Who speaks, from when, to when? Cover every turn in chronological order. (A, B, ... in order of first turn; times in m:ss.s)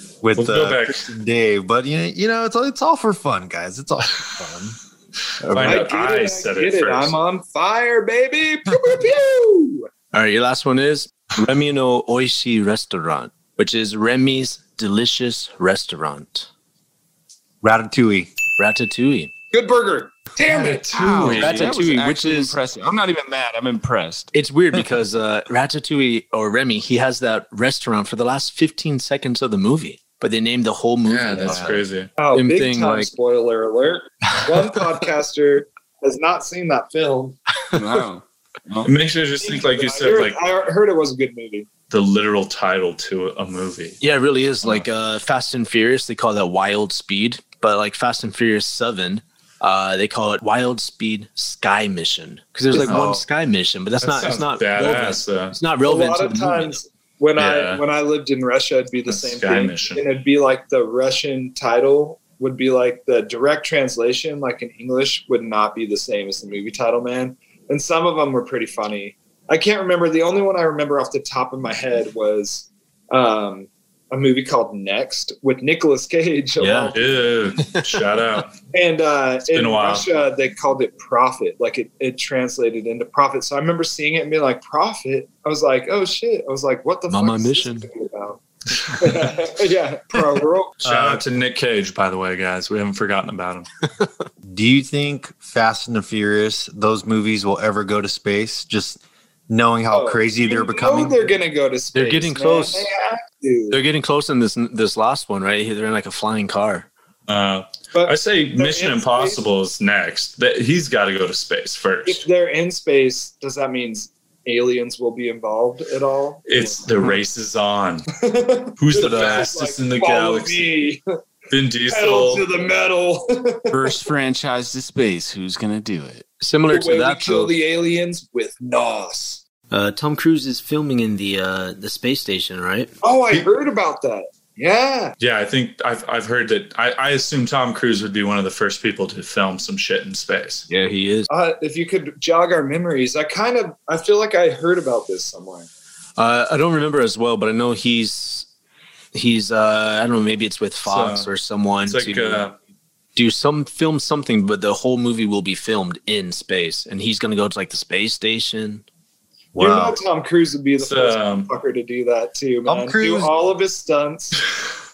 0:00.2-0:04.8 A
0:00.4-0:01.0 B
0:05.4-0:05.9 C
0:05.5-0:07.2 B
0:05.6-0:09.9 D
0:10.1-0:16.5 C
0:17.6-0:18.3 A
0:18.6-0:19.3 C
0:19.5-0:21.4 D
0:20.4-0:21.6 B
0:20.9-0:24.3 E
0:21.2-0:22.6 C
0:24.3-0:31.8 C
0:31.1-0:32.1 B
0:31.5-0:31.8 A
0:32.2-0:37.4 D
0:32.3-0:33.1 C
0:37.7-0:38.9 E
0:38.8-0:40.4 B
0:39.4-0:41.7 D
0:41.9-0:44.0 B
0:44.0-0:56.8 C
0:52.8-0:53.2 B
0:54.0-0:55.6 B
0:55.8-1:17.2 D
0:57.4-0:57.8 B
0:59.1-1:00.0 B
1:16.6-1:17.0 C
1:16.9-1:18.5 B
1:17.6-1:17.9 C
1:18.7-1:30.8 D
1:19.5-1:20.1 B
1:27.1-1:27.9 C
1:30.8-1:31.2 A
1:30.8-1:33.7 B
1:34.4-1:41.2 A
1:39.9-1:43.8 D
1:41.9-1:42.9 C
1:43.7-1:46.9 C
1:47.3-1:52.2 B
1:47.9-1:49.4 D
1:52.1-1:57.1 D
1:56.5-1:58.1 B
1:58.2-2:01.0 D
1:58.8-2:00.7 B
2:01.5-2:02.4 B
2:01.9-2:03.8 D
2:03.7-2:06.3 E
2:06.4-2:07.5 C
2:06.7-2:09.4 D
2:09.7-2:12.9 C
2:13.0-2:15.2 D
2:15.2-2:20.7 B
2:20.7-2:21.3 C
2:21.3-2:25.7 D
2:26.2-2:28.5 C
2:29.1-2:32.4 C
2:30.8-2:31.3 B
2:31.9-2:32.6 B
2:33.2-2:38.8 C
2:39.6-2:40.0 A
2:39.6-2:44.4 D
2:40.8-2:41.5 B
2:42.7-2:43.3 A